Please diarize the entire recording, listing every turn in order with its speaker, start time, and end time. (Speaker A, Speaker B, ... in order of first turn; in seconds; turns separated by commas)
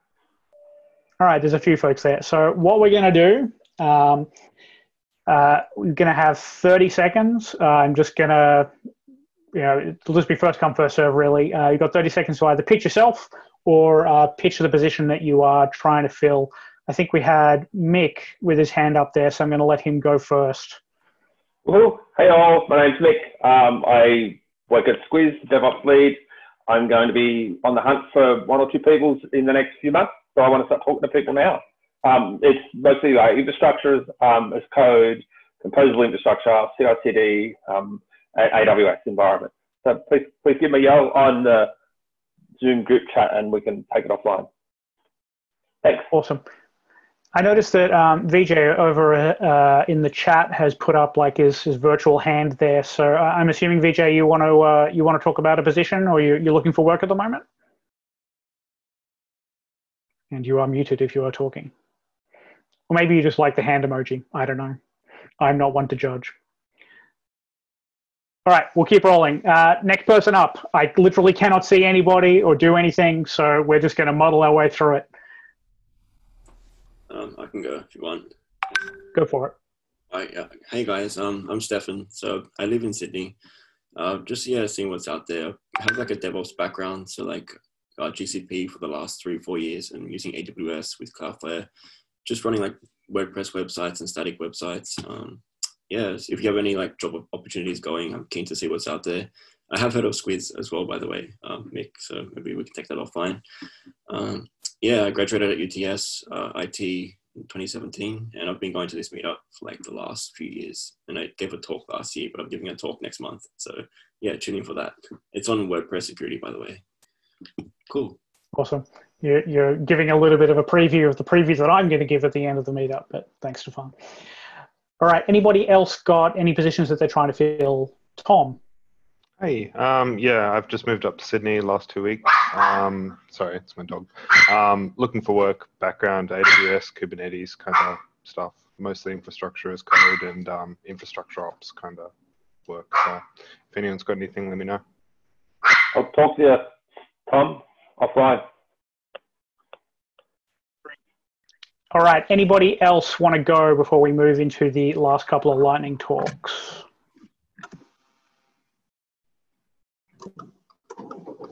Speaker A: 1.2-4.3, Speaker A: 5.3-8.7, Speaker A: 9.5-20.8, Speaker B: 21.6-41.7, Speaker B: 42.6-44.5, Speaker A: 46.1-46.4, Speaker A: 47.3-57.4, Speaker A: 60.3-61.7, Speaker A: 62.9-64.8, Speaker A: 65.4-66.3, Speaker A: 68.5-75.0, Speaker C: 77.1-78.3, Speaker A: 79.1-79.5, Speaker C: 80.1-83.3, Speaker C: 84.0-91.7, Speaker C: 92.2-103.4, Speaker C: 104.1-116.8, Speaker C: 117.9-118.2, Speaker A: 118.5-123.9, Speaker A: 125.0-128.6, Speaker D: 129.4-142.1, Speaker D: 142.7-144.8, Speaker B: 145.9-146.7, Speaker B: 147.3-148.5, Speaker A: 151.9-156.8